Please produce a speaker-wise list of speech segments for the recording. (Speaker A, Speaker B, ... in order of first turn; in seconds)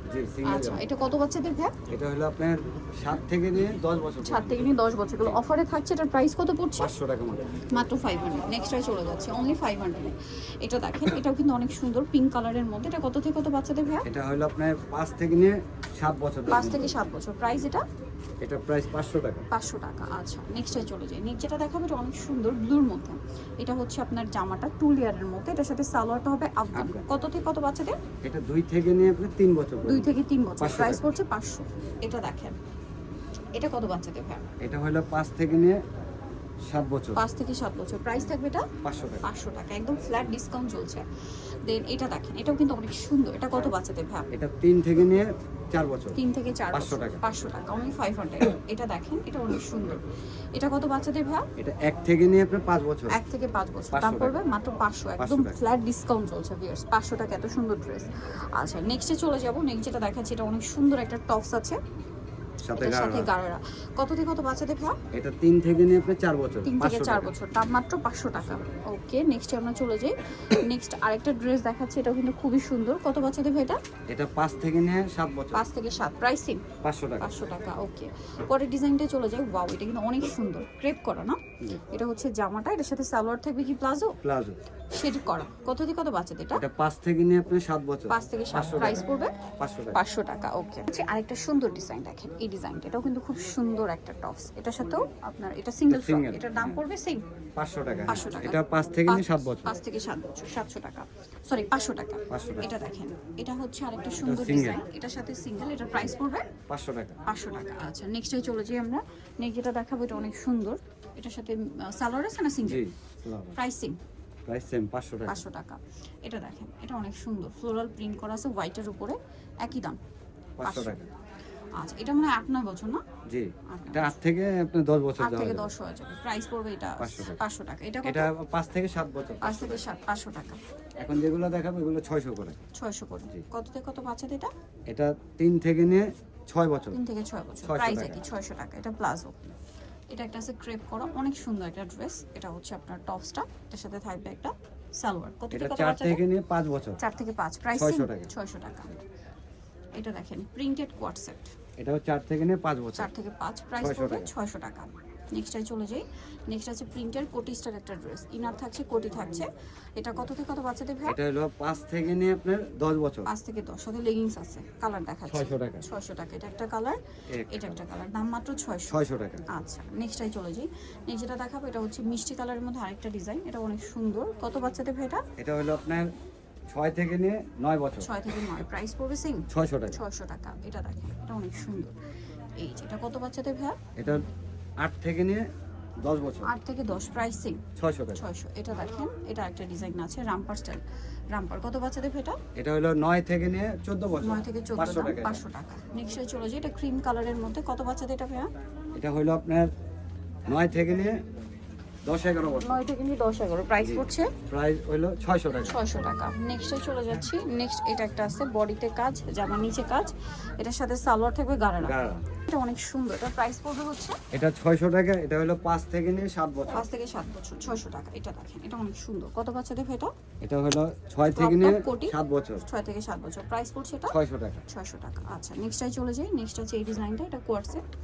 Speaker A: 0.1-0.8, 1.9-4.7, 6.8-7.6, 14.0-17.0, 18.4-19.5, 26.7-27.0, 28.2-31.1, 34.6-35.8, 36.7-37.2, 38.8-39.2, 44.3-46.2, 46.7-47.2, 51.6-53.2, 53.9-54.4, 55.2-55.6, 62.6-63.3, 65.1-67.3, 74.1-75.6, 76.8-77.3, 84.2-84.6, 86.5-89.0, 89.6-90.0, 95.9-96.7, 97.6-99.8, 102.3-102.7, 104.2-104.8, 106.7-107.2, 112.7-113.6, 114.5-115.4, 120.6-121.1, 123.3-125.7, 127.0-127.4, 128.0-129.8, 131.0-132.6, 134.9-137.0, 137.6-138.2, 145.5-147.0, 147.7-148.3, 151.8-153.1, 153.8-154.3, 161.1-163.3, 165.3-165.8, 167.3-167.8, 168.9-169.4, 175.4-176.1, 176.7-178.1, 179.5-180.0, 183.9-184.2, 184.8-185.4, 186.0-186.5, 187.8-188.2, 192.5-195.4, 198.9-199.7, 200.4-201.2, 202.1-202.8, 203.8-205.9, 211.8-212.2, 214.3-216.8, 220.4-222.6, 224.1-224.6
Speaker B: 0.4-1.8, 4.2-6.9, 7.7-14.0, 16.5-17.8, 19.5-28.0, 29.8-32.6, 33.5-34.5, 37.1-38.7, 39.2-41.0, 41.6-44.3, 46.1-51.5, 53.1-61.8, 62.8-65.0, 66.7-73.8, 75.5-76.6, 77.2-84.2, 84.9-86.6, 88.1-89.3, 89.9-97.2, 98.1-106.5, 107.3-112.8, 113.5-114.0, 115.2-120.0, 120.6-121.0, 121.8-123.0, 123.7-124.2, 125.2-128.3, 129.4-130.6, 132.7-134.5, 136.9-139.5, 140.1-146.2, 147.0-148.9, 149.9-151.5, 152.9-161.2, 163.2-175.2, 178.0-181.9, 182.6-183.8, 186.4-187.6, 188.1-192.4, 194.2-198.5, 202.6-204.3, 205.6-214.2, 216.7-220.1, 221.3-224.2, 224.7-227.8